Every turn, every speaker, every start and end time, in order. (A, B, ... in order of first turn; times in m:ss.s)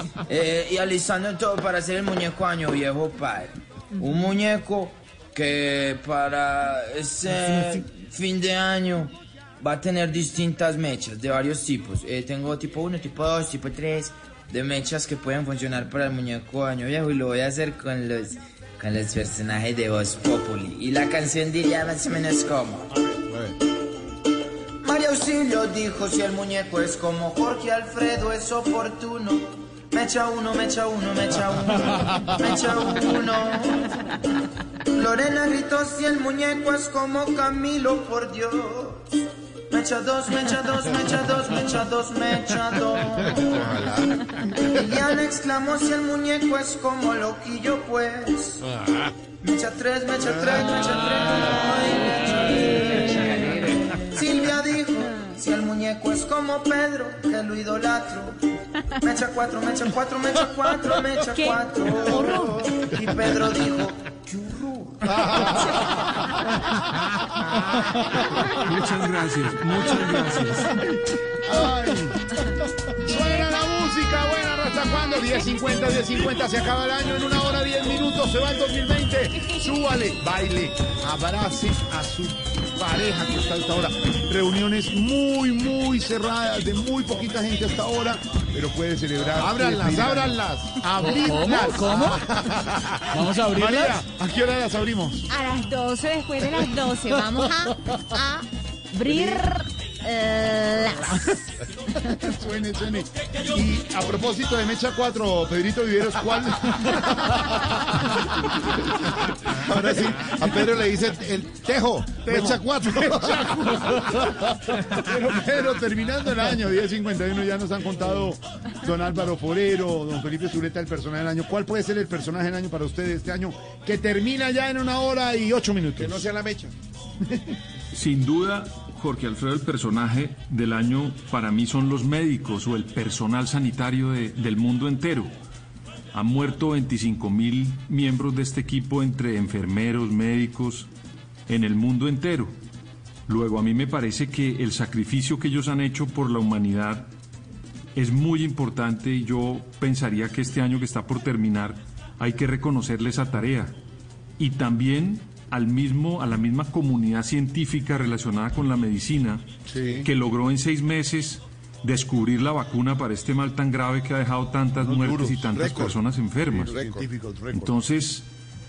0:00.3-0:22.9 A
0:24.8-0:33.8 A
0:34.9-0:39.0 A
0:39.7-0:43.6 A
0:43.2-0:44.2 B
0:44.6-0:48.6 A
0:49.4-0:58.4 A
0:50.2-0:50.6 B
0:59.0-1:05.0 A
1:01.2-1:01.6 C
1:02.3-1:02.6 C
1:08.5-1:10.8 D
1:11.4-1:12.2 E
1:13.0-1:32.2 E
1:29.4-1:30.8 B
1:31.0-1:32.3 F
1:32.4-1:32.6 B
1:33.1-1:34.0 F
1:33.5-1:35.2 E
1:35.3-1:41.3 C
1:39.1-1:39.4 E
1:42.2-1:47.6 E
1:49.5-1:53.5 B
1:52.2-1:54.3 E
1:54.9-2:06.2 E
2:06.0-2:06.7 B
2:07.9-2:15.3 D
2:16.1-2:20.9 D
2:21.5-2:22.5 D
2:23.3-2:27.1 D
2:28.0-2:33.7 D
2:34.4-2:39.4 D
2:39.7-2:40.1 B
2:40.0-2:46.8 D
2:44.8-2:47.1 B
2:46.7-2:47.8 E
2:47.5-2:48.2 D